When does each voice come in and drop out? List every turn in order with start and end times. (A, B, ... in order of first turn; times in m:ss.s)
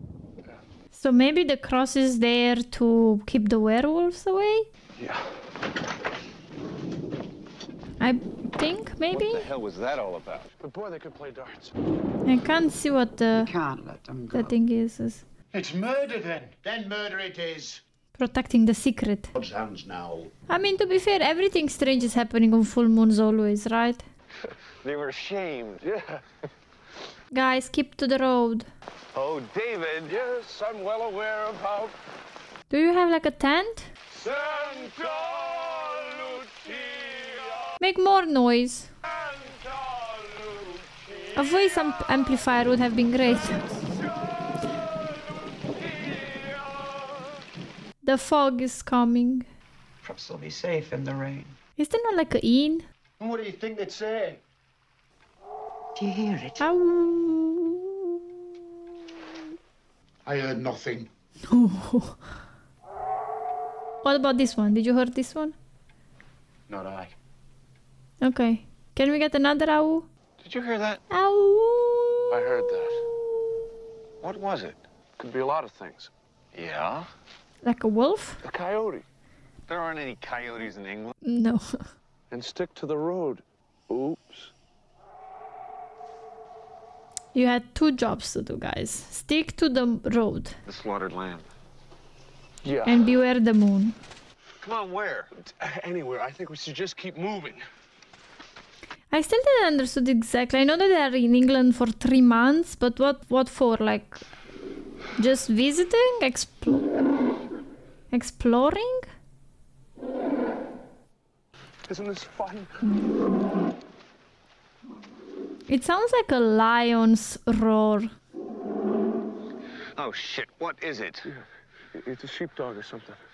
0:00.9-0:04.7 A
0:08.0-0:09.5 A
0:09.1-0:10.5 B
0:10.6-0:11.7 C
0:12.2-0:13.5 A
0:13.3-0:14.6 D
0:14.3-0:15.2 A
0:15.5-0:17.8 E
0:18.2-0:19.3 A
0:19.3-0:20.3 E
0:20.5-0:24.0 A
0:24.8-0:25.9 B
0:25.8-0:26.2 C
0:27.3-0:28.7 A
0:29.1-0:30.2 B
0:30.1-0:32.0 C
0:32.7-0:33.9 A
0:34.1-0:37.7 C
0:37.8-0:38.9 A
0:39.2-0:41.4 C
0:41.4-0:43.6 A
0:45.7-0:46.7 C
0:48.0-0:49.5 A
0:50.0-0:51.6 D
0:51.8-0:52.8 A
0:53.2-0:54.4 E
0:56.0-0:56.6 D
0:56.6-0:58.2 A
1:00.2-1:01.1 E
1:01.5-1:02.2 A
1:04.0-1:05.6 A
1:06.7-1:07.0 B
1:08.2-1:10.1 A
1:10.4-1:11.0 B
1:11.1-1:12.5 A
1:12.3-1:13.0 C
1:14.2-1:14.8 B
1:15.2-1:16.1 C
1:16.5-1:17.1 B
1:17.6-1:18.4 A
1:18.4-1:19.0 C
1:19.7-1:21.1 B
1:21.2-1:21.8 A
1:22.3-1:24.5 C
1:27.3-1:30.6 A
1:30.7-1:31.5 B
1:32.6-1:33.1 C
1:32.8-1:34.0 A
1:34.6-1:35.3 B
1:35.4-1:37.6 C
1:39.1-1:44.2 A
1:45.2-1:46.9 A
1:48.1-1:49.1 A
1:51.9-1:52.8 C
1:55.7-1:58.1 A
2:00.0-2:01.3 B
2:01.2-2:03.2 C